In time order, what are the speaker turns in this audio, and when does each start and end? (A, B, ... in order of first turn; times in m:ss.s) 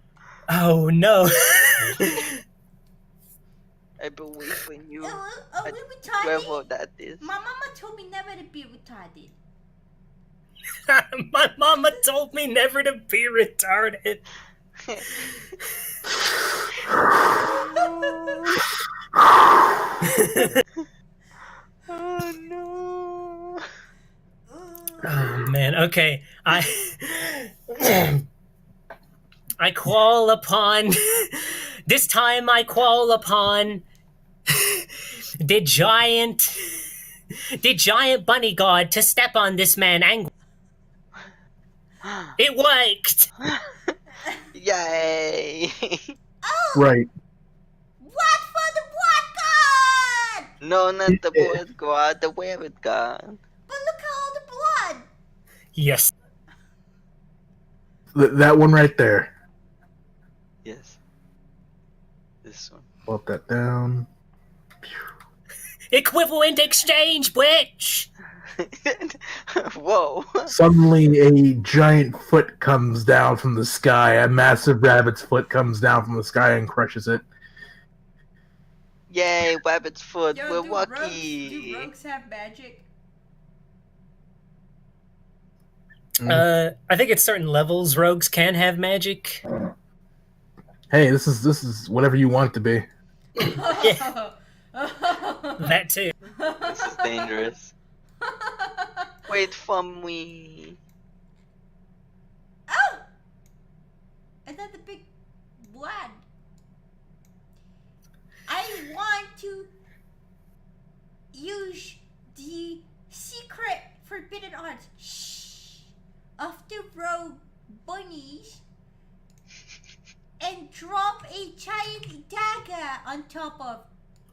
0:00.5-0:02.3 A
0:01.6-0:02.2 B
0:04.0-0:07.3 C
0:05.0-0:06.6 B
0:07.2-0:09.4 B
0:10.9-0:14.2 A
0:17.4-0:18.6 C
0:20.1-0:20.5 A
0:21.9-0:23.6 C
0:24.6-0:25.0 B
0:25.0-0:28.2 A
0:29.6-0:33.8 A
0:35.4-0:36.6 A
0:37.6-0:40.3 A
0:42.0-0:42.3 C
0:42.4-0:43.3 A
0:44.5-0:46.0 C
0:46.4-0:46.8 B
0:46.7-0:47.1 D
0:48.0-0:50.5 B
0:50.6-0:53.4 C
0:51.1-0:51.6 D
0:53.7-0:55.1 B
0:55.7-0:56.1 A
0:58.1-0:59.3 D
1:00.6-1:01.0 C
1:02.4-1:02.9 C
1:03.1-1:04.1 D
1:05.9-1:08.1 A
1:08.6-1:10.5 C
1:10.5-1:17.2 D
1:19.1-1:21.9 C
1:20.3-1:22.9 B
1:26.2-1:29.4 A
1:30.9-1:32.8 D
1:33.4-1:35.7 B
1:33.8-1:34.1 A
1:35.6-1:36.1 A
1:36.4-1:37.1 B
1:36.6-1:37.7 C
1:38.2-1:39.1 B
1:39.2-1:40.8 C
1:42.7-1:43.0 B
1:44.4-1:45.1 B
1:45.6-1:46.2 B
1:48.5-1:49.7 B
1:51.3-1:58.6 B
2:00.4-2:03.9 B